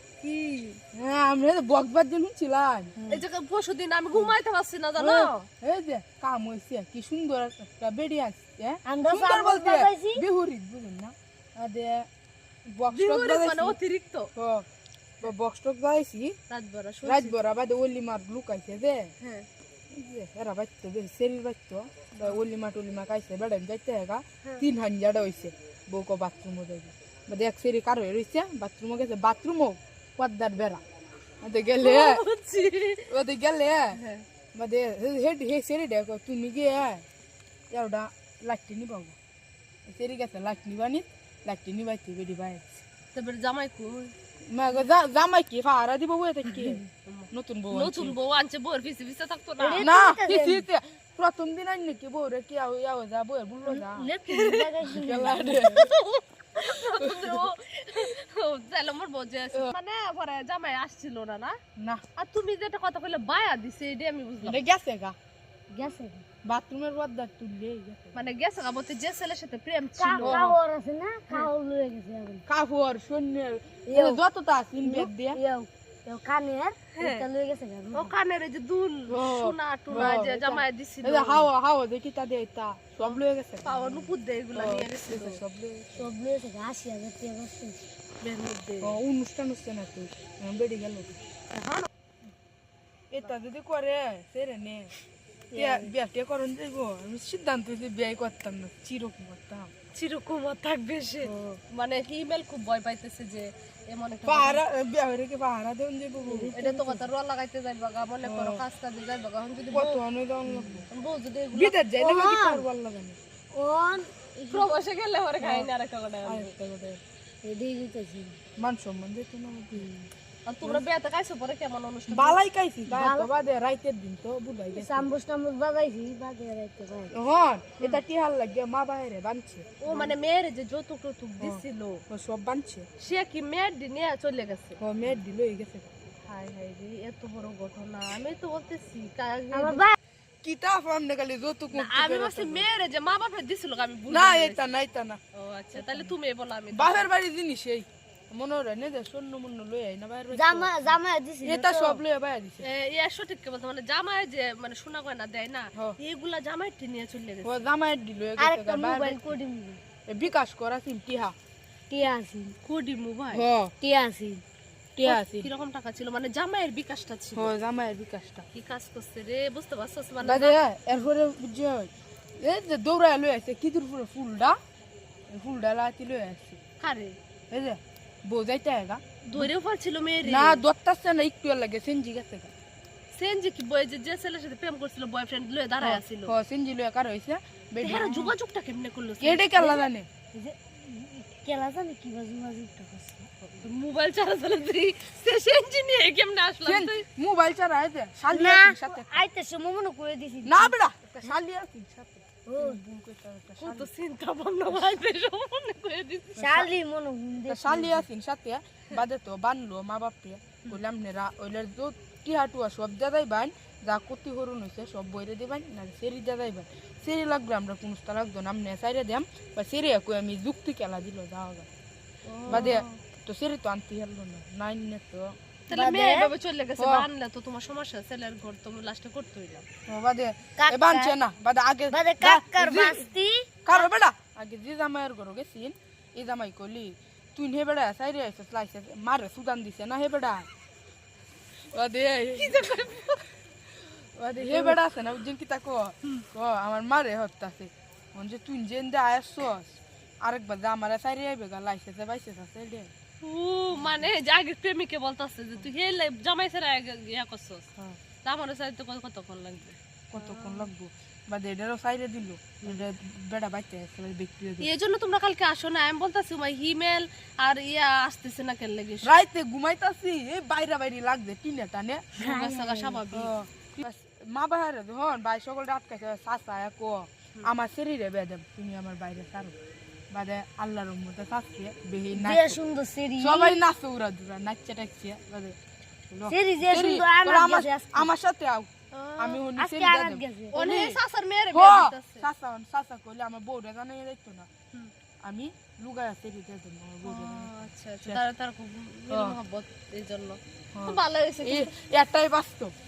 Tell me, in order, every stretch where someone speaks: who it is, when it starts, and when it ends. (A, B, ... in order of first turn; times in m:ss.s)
0:00.2-0:00.8 A
0:00.9-0:02.9 B
0:03.0-0:03.2 C
0:03.1-0:05.5 A
0:05.0-0:12.1 B
0:08.8-0:10.2 C
0:12.7-0:13.8 B
0:12.9-0:14.3 A
0:14.4-0:14.6 B
0:15.2-0:16.4 B
0:16.5-0:17.3 A
0:17.0-0:19.1 B
0:19.2-0:19.5 A
0:19.9-0:30.8 B
0:31.4-0:32.2 B
0:31.8-0:33.1 A
0:33.1-0:34.0 B
0:33.9-0:34.2 A
0:34.5-0:37.0 B
0:37.7-0:39.2 B
0:39.9-0:42.6 B
0:43.1-0:44.1 A
0:44.5-0:46.8 B
0:46.5-0:49.9 A
0:47.3-0:48.2 B
0:49.6-0:50.7 C
0:49.8-0:54.1 B
0:53.6-0:55.9 C
0:54.3-0:54.7 A
0:54.9-0:55.9 B
0:55.6-1:01.6 A
0:56.6-0:57.4 B
1:01.8-1:02.0 B
1:02.2-1:04.6 A
1:04.4-1:05.2 B
1:05.7-1:06.2 C
1:06.4-1:08.3 B
1:08.1-1:10.5 A
1:10.0-1:12.4 C
1:10.2-1:10.5 B
1:12.5-1:15.4 B
1:13.9-1:14.2 C
1:14.8-1:18.1 C
1:17.0-1:17.2 A
1:17.9-1:21.5 A
1:19.1-1:26.1 B
1:19.9-1:20.2 C
1:23.0-1:25.4 A
1:25.9-1:27.8 C
1:28.2-1:29.0 A
1:28.8-1:31.2 B
1:31.5-1:31.9 A
1:33.1-1:34.9 B
1:35.5-1:35.9 C
1:35.5-1:39.7 B
1:39.9-1:44.6 A
1:41.2-1:41.6 C
1:44.2-1:46.5 B
1:46.2-1:47.1 C
1:46.5-1:51.8 A
1:48.2-1:48.6 B
1:49.7-1:50.9 B
1:51.5-1:53.2 B
1:52.0-1:52.7 C
1:53.5-1:54.7 C
1:54.4-1:56.5 A
1:55.4-1:55.7 B
1:56.2-1:57.0 B
1:57.4-1:58.4 C
1:58.6-1:59.9 B
1:59.7-2:00.1 C
2:00.4-2:02.4 A
2:02.1-2:05.1 B
2:02.9-2:03.3 C
2:04.7-2:07.1 C
2:07.1-2:10.1 B
2:09.8-2:12.0 A
2:11.4-2:12.9 B
2:13.0-2:14.8 A
2:14.8-2:15.9 B
2:16.3-2:19.9 A
2:19.5-2:20.0 C
2:20.4-2:22.7 B
2:21.7-2:24.6 A
2:24.1-2:25.2 B
2:25.3-2:27.1 A
2:25.7-2:26.1 B
2:26.7-2:32.6 B
2:30.3-2:32.0 C
2:32.6-2:37.6 A
2:37.4-2:39.4 B
2:38.4-2:39.8 C
2:40.1-2:41.3 B
2:41.9-2:42.6 C
2:42.6-2:43.4 A
2:43.3-2:43.7 B
2:43.8-2:44.4 C
2:45.0-2:45.5 B
2:45.0-2:47.5 A
2:47.3-2:48.4 B
2:48.5-2:50.6 A
2:50.2-2:54.6 B
2:55.3-2:56.6 B
2:56.8-2:57.2 A
2:57.5-2:59.5 B
2:59.2-3:00.6 A
3:00.2-3:02.5 B
3:03.1-3:06.3 A
3:05.8-3:08.2 B
3:07.8-3:09.8 A
3:07.9-3:08.3 C
3:09.2-3:10.1 B
3:10.3-3:13.3 C
3:13.4-3:17.0 A
3:16.6-3:19.2 B
3:18.3-3:20.8 C
3:20.4-3:23.9 B
3:21.1-3:21.3 A
3:22.5-3:22.8 C
3:23.6-3:26.6 A
3:26.4-3:28.1 C
3:26.4-3:26.7 B
3:27.5-3:41.7 B
3:42.2-3:43.0 A
3:42.5-3:45.4 B
3:45.7-3:49.6 A
3:45.7-3:46.3 C
3:46.8-3:47.1 B
3:49.9-3:53.1 B
3:50.6-3:51.2 C
3:51.9-3:53.9 C
3:53.6-4:00.5 B
4:01.7-4:03.1 B
4:02.4-4:03.2 A
4:04.0-4:12.9 B
4:04.4-4:04.8 A
4:13.2-4:17.7 A
4:13.7-4:14.0 B
4:18.2-4:20.7 A
4:20.1-4:24.7 B
4:24.6-4:29.1 A
4:29.0-4:39.5 B
4:32.2-4:33.3 A
4:32.2-4:32.8 C
4:40.1-4:42.6 B
4:42.1-4:43.6 C
4:43.2-4:45.6 B
4:46.1-4:51.0 B
4:46.3-4:48.1 C
4:48.9-4:49.4 A
4:49.6-4:50.6 C
4:50.5-4:52.2 A
4:51.5-4:54.5 B
4:55.2-4:58.2 B
4:57.0-5:01.7 A
4:59.1-4:59.4 B
5:00.7-5:02.7 B